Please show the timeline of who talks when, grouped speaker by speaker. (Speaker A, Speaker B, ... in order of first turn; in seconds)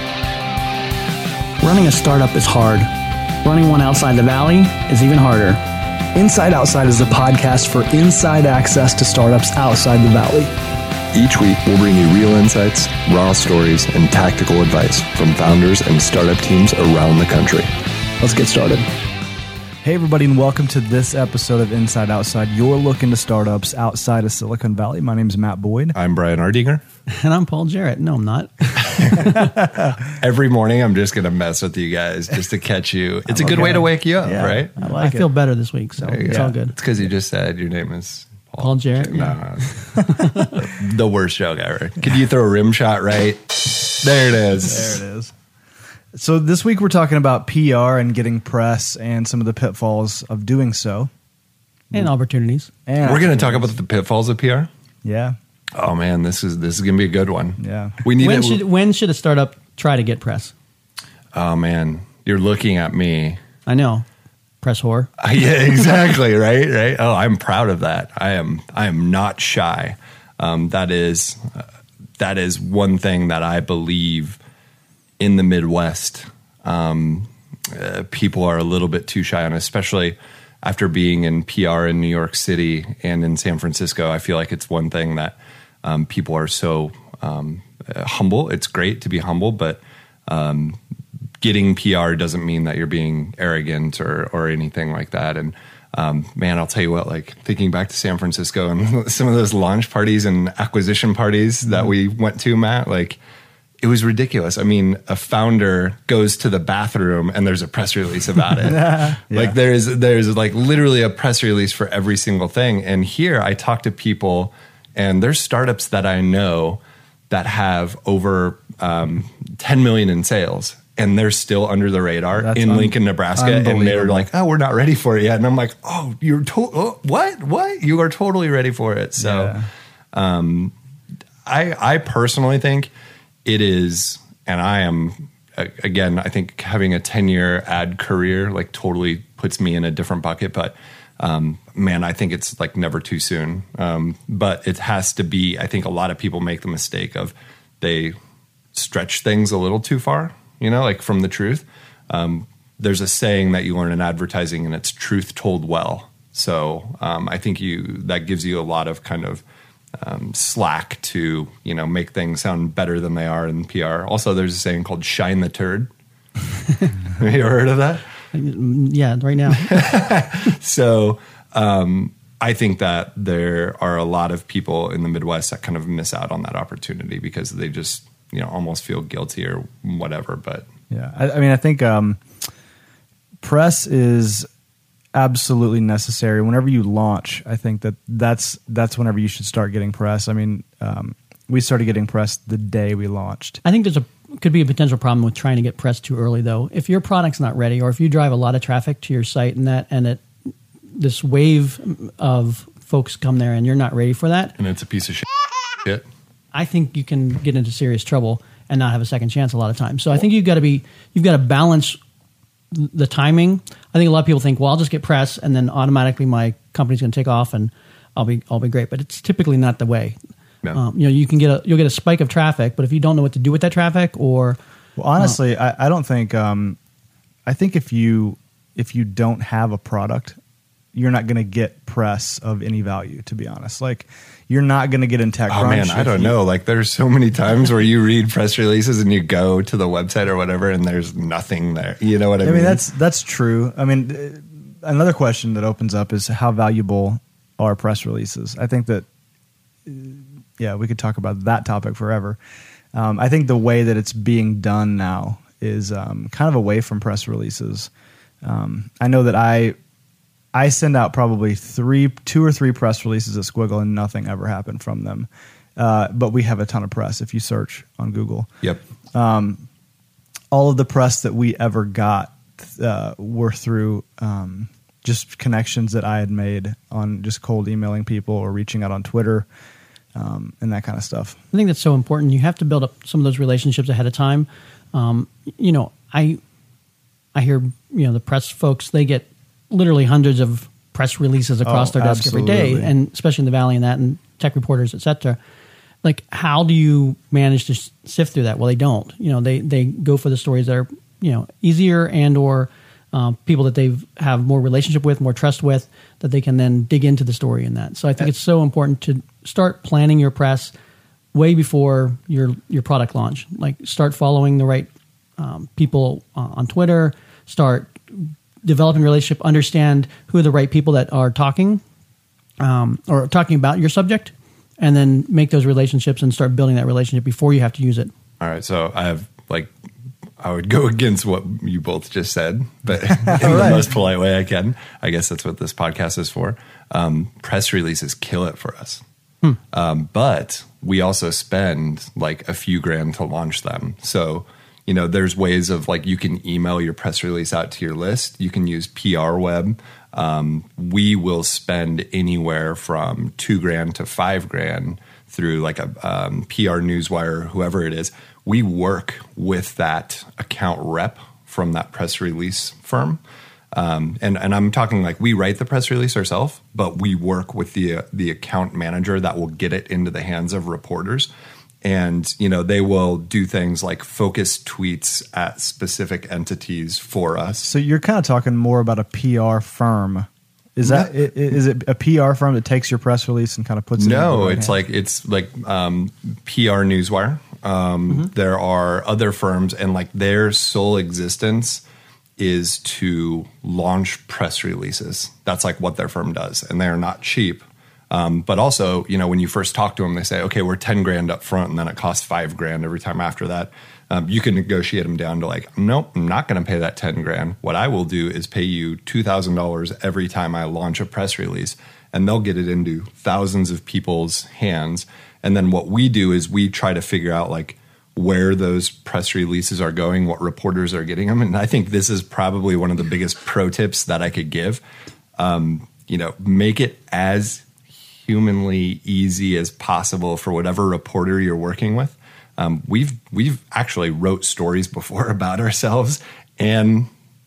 Speaker A: 1.6-2.9, 3.4-5.6, 27.1-29.5, 33.4-33.7, 34.8-36.7, 38.6-40.5, 51.9-52.7, 58.2-60.5, 63.6-64.0, 64.6-65.1, 168.3-169.9, 193.6-200.2, 200.9-204.5, 206.5-212.0, 212.7-220.2, 220.7-224.6, 281.5-286.4, 287.3-295.4, 296.0-310.7, 311.3-321.8, 322.6-328.1
Speaker B: 6.1-10.5, 18.2-18.9, 19.8-25.9, 33.3-35.2, 36.2-36.5, 44.7-45.3, 46.1-51.1, 52.9-53.7, 55.0-55.4, 57.6-58.0, 108.8-109.5, 122.4-124.3, 129.2-129.7, 180.9-182.2, 183.4-184.5, 185.1-193.6, 225.0-226.8, 227.4-230.4, 230.9-236.3, 242.4-249.1, 249.8-252.4, 252.9-257.9, 258.4-259.8, 260.5-268.5, 269.1-269.6, 270.5-279.4, 280.1-281.4, 291.6-292.9, 333.2-333.8, 377.6-384.8
Speaker C: 11.1-17.7, 25.9-26.8, 28.8-29.5, 30.1-34.7, 36.0-45.0, 53.0-54.7, 55.8-58.6, 61.3-63.4, 65.2-71.6, 72.2-74.4, 75.2-90.8, 91.4-103.2, 103.8-129.6, 130.1-130.7, 131.4-132.9, 133.4-148.2, 148.7-159.4, 159.9-165.9, 167.1-168.0, 169.5-180.7, 204.6-205.3, 235.5-242.8, 328.4-329.7, 330.4-339.0, 339.7-363.2, 363.7-371.3, 371.8-377.7, 380.8-381.2, 384.0-391.8, 392.4-424.8, 425.4-437.1